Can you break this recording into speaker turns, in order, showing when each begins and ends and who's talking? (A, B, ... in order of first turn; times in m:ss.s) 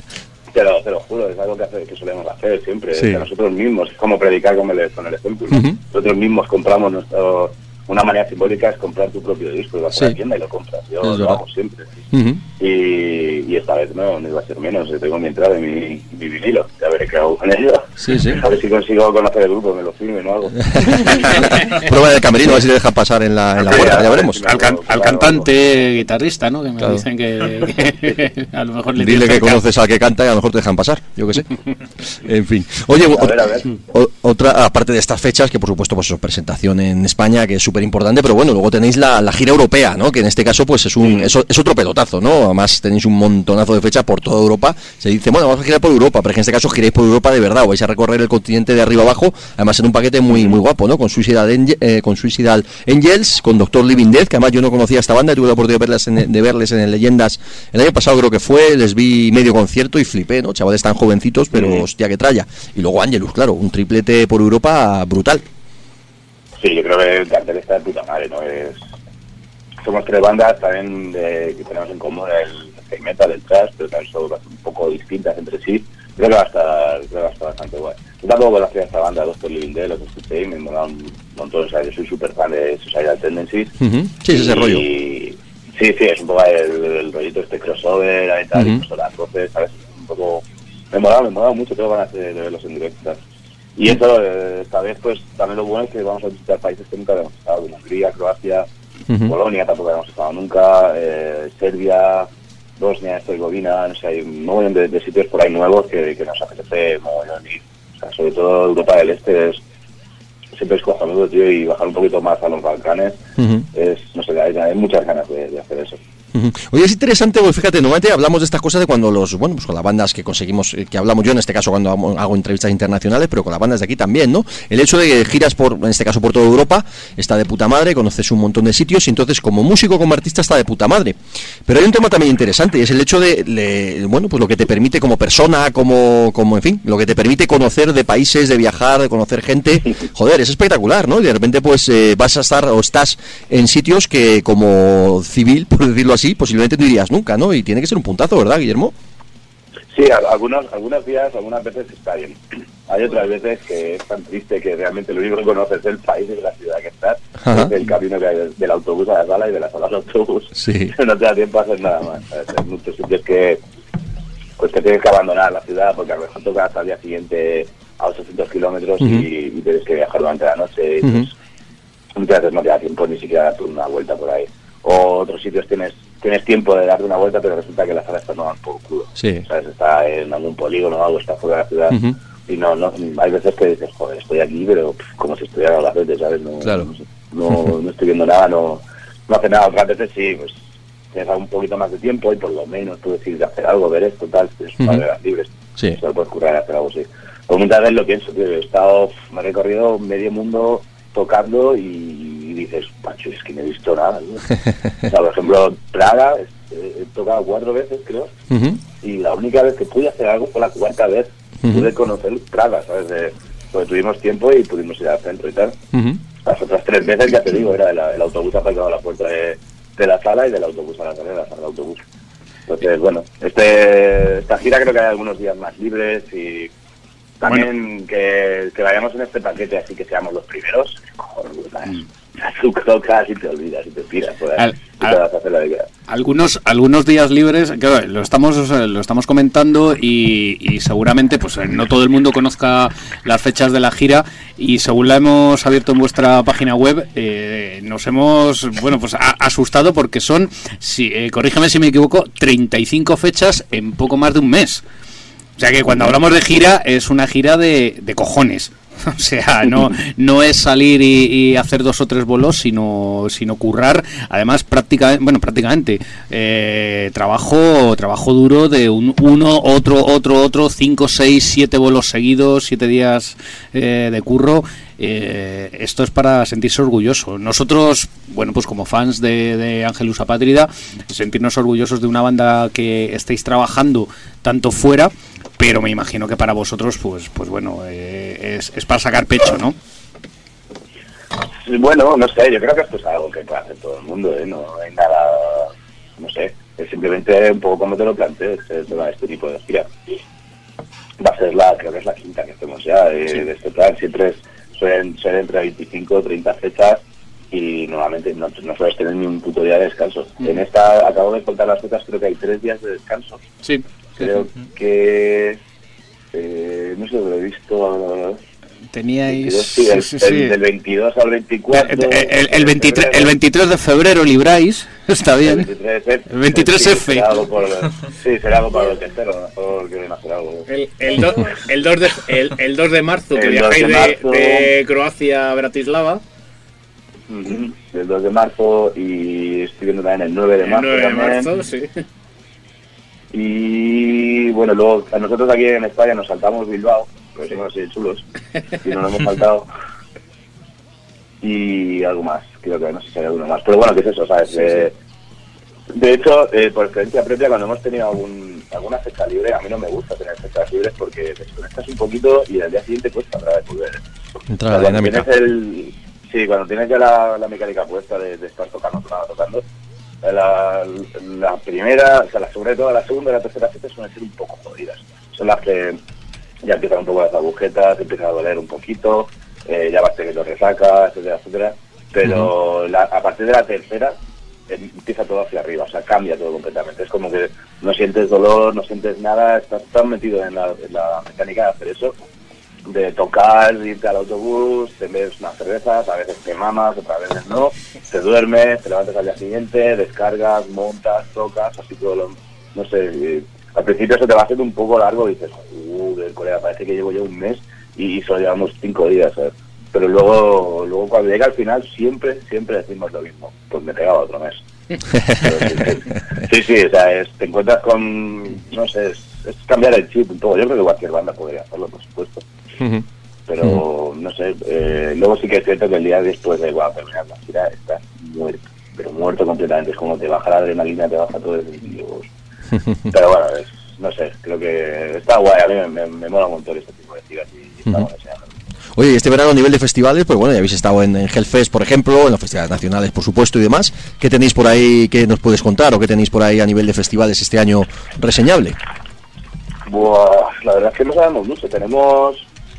0:00.5-0:12.0 A
0:02.9-0:03.3 B
0:05.5-0:05.8 B
0:11.0-0:11.4 B
0:12.1-0:12.4 B
0:12.6-0:21.5 A
0:18.0-0:18.4 B
0:20.7-0:24.4 B
0:23.6-0:25.5 A
0:24.4-0:29.6 C
0:29.0-1:05.4 B
0:33.0-0:33.7 A
1:01.5-1:01.8 A
1:06.6-1:08.8 A
1:09.8-1:23.7 A
1:23.8-1:24.8 B
1:24.3-1:33.2 A
1:28.5-1:28.8 B
1:33.8-1:38.7 A
1:39.1-1:39.3 B
1:39.2-1:49.6 A
1:50.5-1:53.2 A
1:53.4-1:53.6 B
1:53.7-1:56.0 A
1:56.3-2:28.9 B
2:29.9-2:43.6 A
2:37.4-2:37.7 B
2:40.5-2:40.9 B
2:44.6-2:51.3 A
2:49.0-2:49.2 B
2:51.0-2:51.3 B
2:52.2-3:10.6 A
2:59.2-2:59.4 B
3:01.9-3:02.2 B
3:06.6-3:06.9 B
3:11.1-3:24.5 A
3:14.8-3:15.0 B
3:25.0-3:28.3 A
3:28.5-3:28.8 B
3:29.0-3:35.8 A
3:31.6-3:31.9 B
3:35.9-3:36.2 B
3:36.4-3:42.0 A
3:42.7-3:46.7 A
3:47.4-3:55.9 A
3:54.6-3:55.2 C
3:56.1-4:14.8 C
4:15.6-4:49.8 C
4:51.6-4:59.9 A
5:01.2-5:13.4 A
5:13.6-5:14.4 C
5:14.2-5:15.6 A
5:16.3-5:18.4 A
5:18.9-5:20.6 C
5:19.3-5:23.3 A
5:21.7-5:25.7 C
5:25.4-5:30.7 A
5:26.3-5:27.3 C
5:30.7-5:36.2 C
5:33.3-5:34.7 A
5:37.3-5:41.5 A
5:40.6-5:42.0 C
5:43.3-5:48.2 A
5:48.8-5:49.7 A
5:51.4-5:54.9 A
5:55.9-6:04.0 A
6:04.5-6:05.3 B
6:04.7-6:09.6 A
6:10.2-6:16.0 A
6:16.6-6:24.2 A
6:22.2-6:22.5 B
6:24.7-6:32.2 A
6:32.8-6:54.6 A
6:55.2-7:02.4 A
7:03.5-7:12.3 A
7:13.1-7:18.5 A
7:19.0-7:28.8 B
7:29.8-7:32.5 A